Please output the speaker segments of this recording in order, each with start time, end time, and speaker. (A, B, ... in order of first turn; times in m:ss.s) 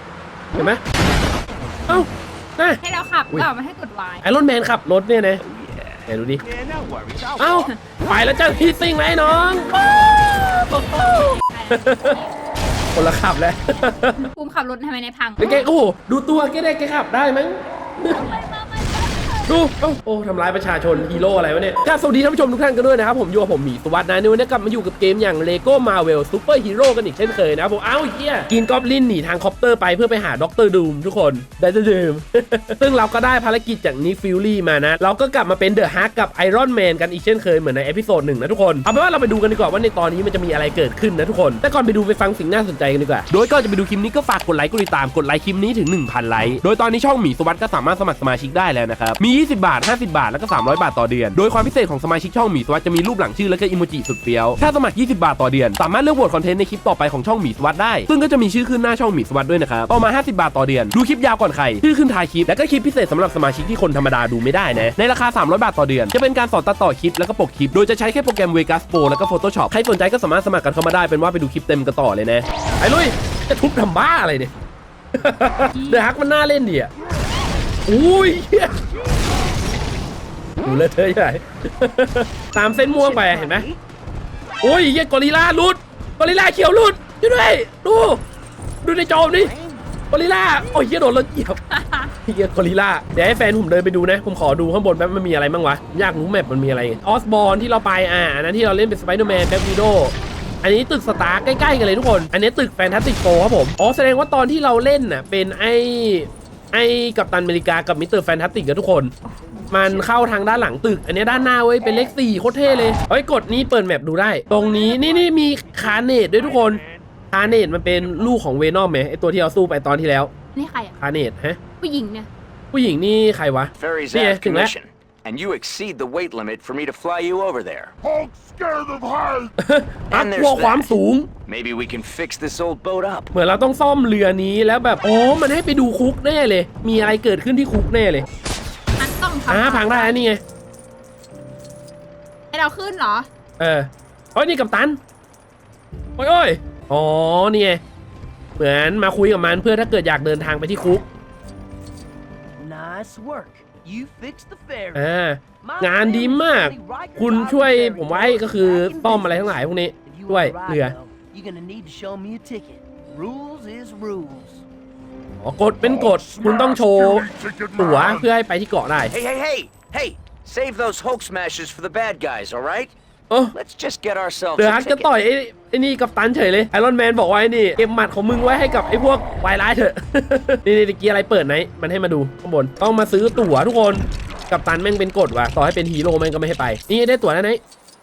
0:00.5-0:00.8 A
0:01.9-0:02.8 A
0:02.8-0:04.2 B
0:04.2-0:05.4 A
0:05.4-0:07.7 C
0:06.1-0:06.4 A
0:07.4-0:09.7 A
0:10.7-0:12.2 A
0:10.9-0:12.3 B
0:12.9-0:14.3 A
0:14.2-0:15.6 B
0:15.4-0:18.2 A
0:18.1-0:19.6 B
0:19.5-1:14.5 A
1:15.1-1:16.9 A
1:15.7-1:16.0 B
1:17.9-1:18.7 A
1:20.6-1:23.7 A
1:22.9-1:23.8 D
1:24.6-1:28.2 A
1:28.8-1:29.5 A
1:29.1-1:29.8 C
1:30.1-1:31.6 A
1:31.7-1:32.1 B
1:32.2-1:49.1 A
1:49.7-2:00.3 A
1:54.6-1:55.3 D
2:00.5-2:00.9 B
2:01.0-2:01.6 A
2:01.8-2:02.3 B
2:02.7-2:04.7 A
2:03.7-2:07.9 C
2:08.0-2:09.5 E
2:09.6-2:11.3 A
2:10.1-2:10.9 C
2:11.4-2:13.3 C
2:13.3-2:18.2 A
2:19.0-2:20.2 B
2:19.5-2:20.4 A
2:22.5-2:23.3 B
2:23.6-2:25.0 A
2:26.2-2:27.8 A
2:28.6-2:31.0 A
2:32.6-2:35.1 D
2:34.9-2:41.0 A
2:35.6-2:44.6 D
2:45.4-2:49.1 A
2:45.8-2:48.3 E
2:49.1-2:52.9 C
2:53.5-2:55.1 C
2:54.6-3:07.6 A